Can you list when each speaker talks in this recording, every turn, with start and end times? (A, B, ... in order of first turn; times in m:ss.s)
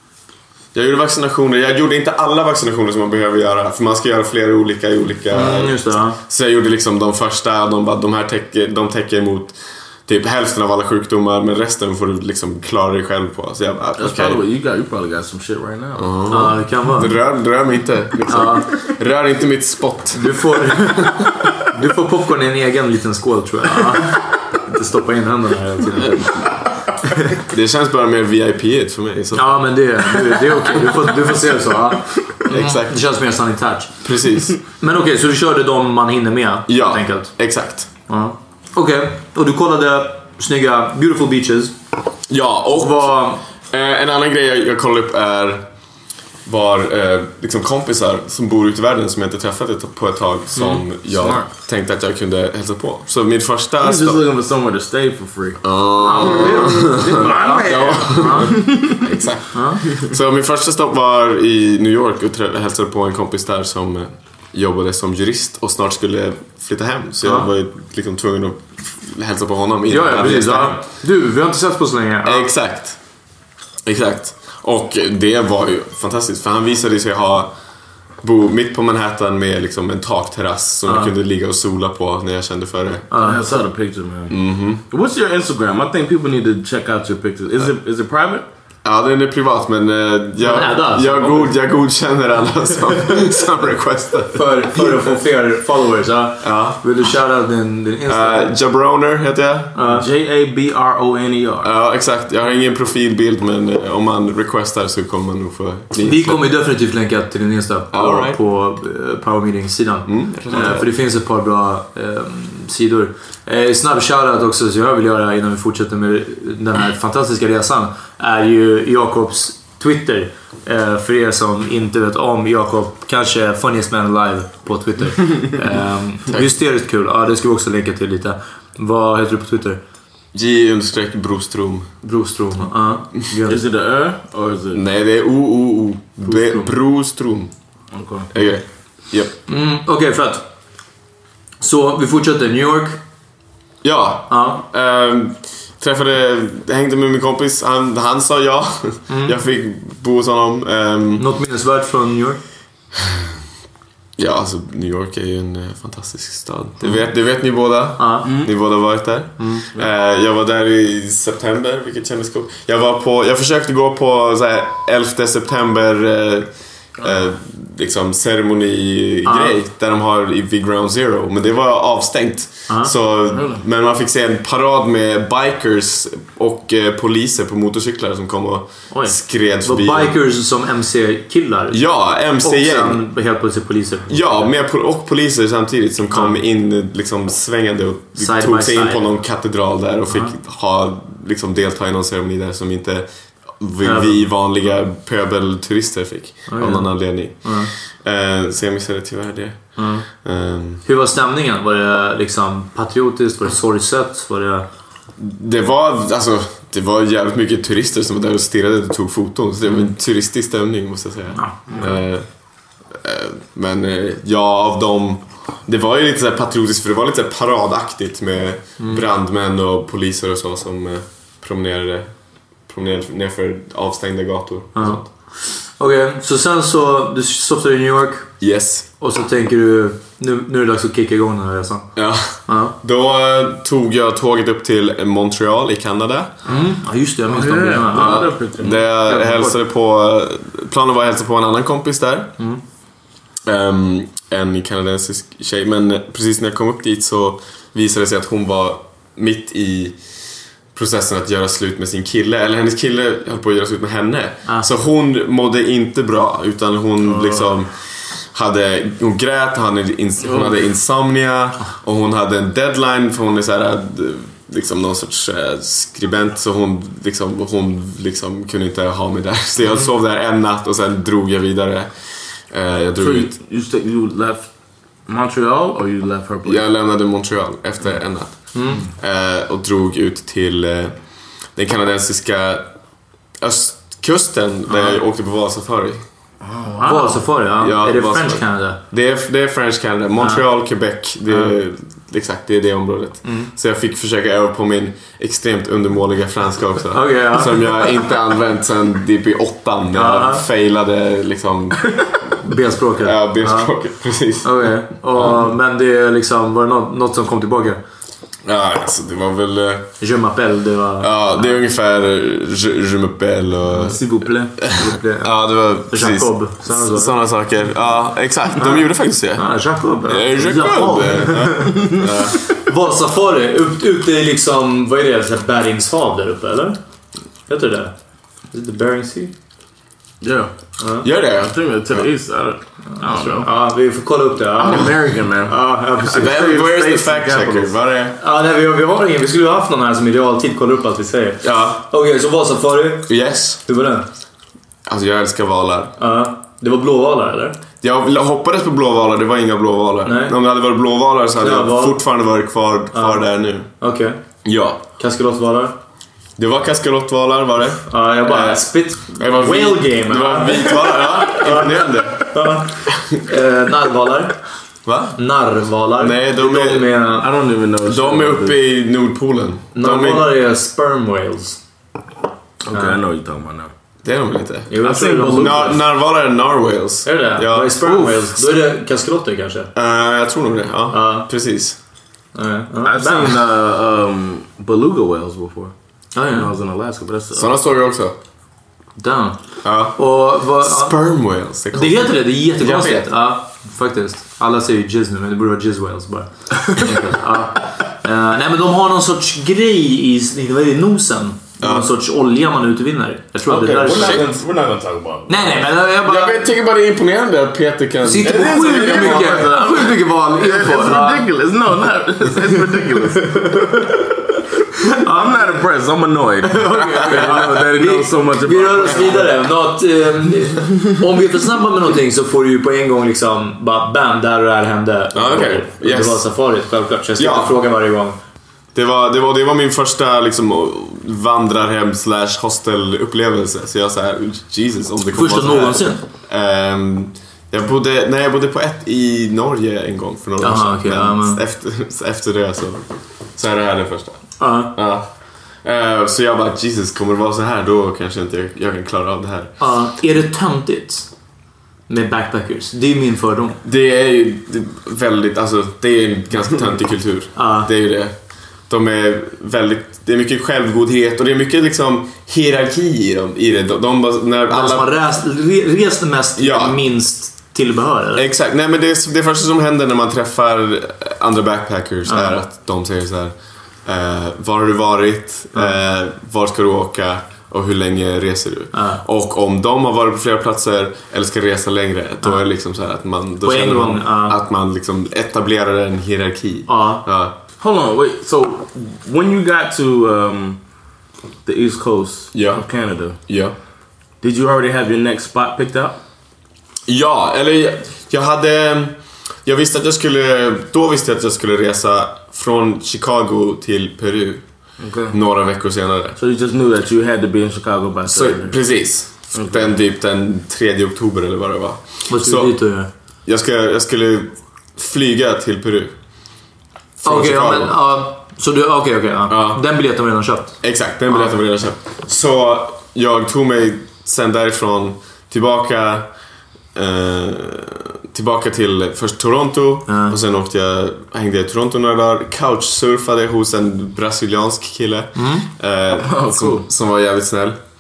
0:00.7-0:14.4 A
0:05.3-0:06.2 B
0:14.0-0:16.2 C
0:16.0-0:21.3 A
0:16.3-0:17.1 B
0:18.3-0:18.6 B
0:20.2-0:26.5 B
0:27.5-0:29.8 A
0:29.3-0:33.9 B
0:32.5-0:33.0 A
0:34.0-0:34.6 A
0:34.8-0:37.3 B
0:36.7-0:37.9 A
0:38.1-0:41.8 B
0:42.3-0:45.7 A
0:42.8-0:43.4 B
0:46.5-0:54.2 A
0:51.1-0:51.5 C
0:53.8-0:59.0 C
0:55.6-1:10.8 A
0:56.0-0:58.6 B
0:59.5-0:59.8 B
1:07.2-1:07.5 B
1:09.9-1:12.5 B
1:12.2-1:13.0 A
1:13.9-1:17.5 A
1:18.2-1:23.1 A
1:20.9-1:21.1 B
1:23.1-1:23.4 B
1:23.2-1:24.4 C
1:24.3-1:24.8 A
1:24.9-1:28.5 C
1:28.8-1:35.1 A
1:30.4-1:31.5 B
1:34.3-1:38.5 B
1:36.4-1:36.8 A
1:38.1-1:39.7 A
1:39.8-1:40.1 B
1:39.9-1:41.7 C
1:41.6-1:46.5 A
1:46.0-2:09.8 B
1:47.9-1:48.4 A
1:50.1-1:50.9 A
2:10.3-2:11.9 A
2:12.0-2:13.6 B
2:13.5-2:14.8 C
2:14.7-2:17.5 A
2:16.2-2:16.7 B
2:17.9-2:18.3 C
2:18.3-2:19.4 A
2:19.5-2:20.5 B
2:21.6-2:23.0 B
2:23.8-2:31.3 A
2:24.3-2:24.6 B
2:29.1-2:29.4 B
2:31.2-2:32.4 B
2:34.2-3:00.2 A
2:38.0-2:38.3 B
2:38.2-2:38.5 C
2:49.2-2:49.5 B
2:53.3-2:53.6 C
2:58.9-3:01.8 B
3:01.7-3:03.0 A
3:02.4-3:04.5 B
3:04.1-3:20.8 A
3:06.1-3:06.4 B
3:08.2-3:09.0 B
3:13.8-3:14.2 B
3:16.5-3:17.7 B
3:19.8-3:20.1 B
3:20.8-3:24.7 B
3:25.2-3:32.3 A
3:31.4-3:31.9 B
3:32.9-3:42.1 A
3:42.7-3:45.1 A
3:44.8-3:48.3 B
3:48.4-3:48.9 A
3:49.0-3:51.9 B
3:52.0-3:56.4 A
3:52.5-3:52.8 B
3:56.5-3:58.4 B
3:57.3-3:58.8 C
3:57.9-4:02.3 A
3:59.0-3:59.6 B
4:03.5-4:10.0 A
4:10.7-4:17.7 A
4:18.3-4:31.9 A
4:20.2-4:20.6 C
4:32.5-4:33.3 A
4:33.0-4:34.5 C
4:35.1-4:36.7 C
4:36.4-4:41.0 A
4:38.5-4:38.8 B
4:41.6-4:42.7 A
4:43.4-4:46.0 A
4:44.7-4:45.0 B
4:46.4-4:47.2 C
4:46.8-4:48.8 B
4:47.6-5:02.3 A
4:53.2-4:53.5 B
4:56.9-4:57.8 B
4:59.9-5:00.4 B
5:02.4-5:03.7 B
5:03.0-5:05.4 A
5:04.4-5:07.8 B
5:08.5-5:09.9 A
5:10.0-5:11.6 B
5:11.0-5:14.0 A
5:13.8-5:14.7 C
5:14.6-5:19.6 A
5:14.7-5:15.3 B
5:15.9-5:17.1 B
5:19.4-5:21.8 B
5:20.1-5:22.5 A
5:21.7-5:22.0 C
5:22.6-5:26.8 B
5:27.5-5:27.9 B
5:28.5-5:29.3 B
5:30.2-5:30.5 C
5:30.8-5:31.1 B
5:31.0-5:32.0 A
5:31.3-5:33.5 C
5:33.0-5:34.9 B
5:34.6-5:37.7 C
5:35.5-5:36.4 B
5:36.1-5:38.2 A
5:38.2-5:43.1 B
5:41.4-5:41.9 A
5:43.1-5:43.6 A
5:43.7-5:44.1 B
5:44.9-5:46.0 A
5:46.0-5:47.6 B
5:47.8-5:53.7 A
5:50.0-5:50.4 B
5:51.4-5:52.0 B
5:52.9-5:53.3 B
5:53.8-5:54.2 B
5:54.4-5:54.8 A
5:55.0-5:55.8 B
5:56.4-6:02.3 A
5:57.9-6:04.4 B
6:04.8-6:05.2 A
6:05.2-6:07.3 B
6:06.0-6:06.9 A
6:07.2-6:08.6 C
6:07.8-6:10.3 A
6:09.8-6:11.6 B
6:12.6-6:13.7 C
6:14.0-6:14.8 A
6:14.7-6:15.8 B
6:14.8-6:15.8 C
6:15.3-6:18.1 A
6:17.0-6:19.7 B
6:19.8-6:21.8 A
6:20.9-6:21.3 B
6:22.4-6:23.4 B
6:22.8-6:25.7 C
6:26.2-6:26.5 B
6:26.3-6:27.5 C
6:27.4-6:28.2 A
6:29.0-6:29.4 B
6:29.6-6:33.1 A
6:30.0-6:31.0 B
6:31.7-6:44.2 B
6:41.6-6:41.9 A
6:43.5-6:45.7 C
6:43.9-6:44.2 A
6:45.3-6:46.5 B
6:46.0-6:49.6 A
6:48.0-6:51.3 B
6:48.2-6:53.6 C
6:53.2-6:54.1 B
6:55.0-6:55.6 B
6:55.0-6:59.4 C
6:56.5-7:08.2 B
7:05.1-7:06.3 A
7:07.2-7:07.6 A
7:08.8-7:22.8 A
7:15.1-7:16.0 B
7:20.4-7:21.4 B
7:23.4-7:25.1 A
7:24.4-7:24.8 B
7:25.6-7:29.5 A
7:29.6-7:31.1 B
7:31.9-7:33.6 B
7:33.6-7:38.1 A
7:37.4-7:37.7 B
7:38.7-7:44.9 A
7:44.5-7:48.2 B
7:46.4-7:46.8 A
7:48.2-7:53.3 A
7:52.1-7:52.4 B
7:53.9-8:07.4 A
7:58.7-7:59.0 B
8:03.4-8:04.4 B
8:06.7-8:07.0 B
8:07.6-8:10.6 C
8:11.4-8:13.2 C
8:12.3-8:13.6 A
8:14.2-8:16.0 C
8:16.9-8:24.4 A
8:24.8-8:25.2 C
8:25.1-8:26.2 A
8:26.2-8:28.6 C
8:28.1-8:32.6 A
8:29.4-8:29.7 C
8:32.1-8:32.9 B
8:33.3-8:36.0 A
8:37.0-8:37.8 A
8:37.0-8:40.6 B
8:39.3-8:39.6 A
8:40.6-8:46.1 A
8:46.8-8:57.6 A
8:49.9-8:50.2 B
8:55.2-8:55.5 B
8:56.0-8:56.7 C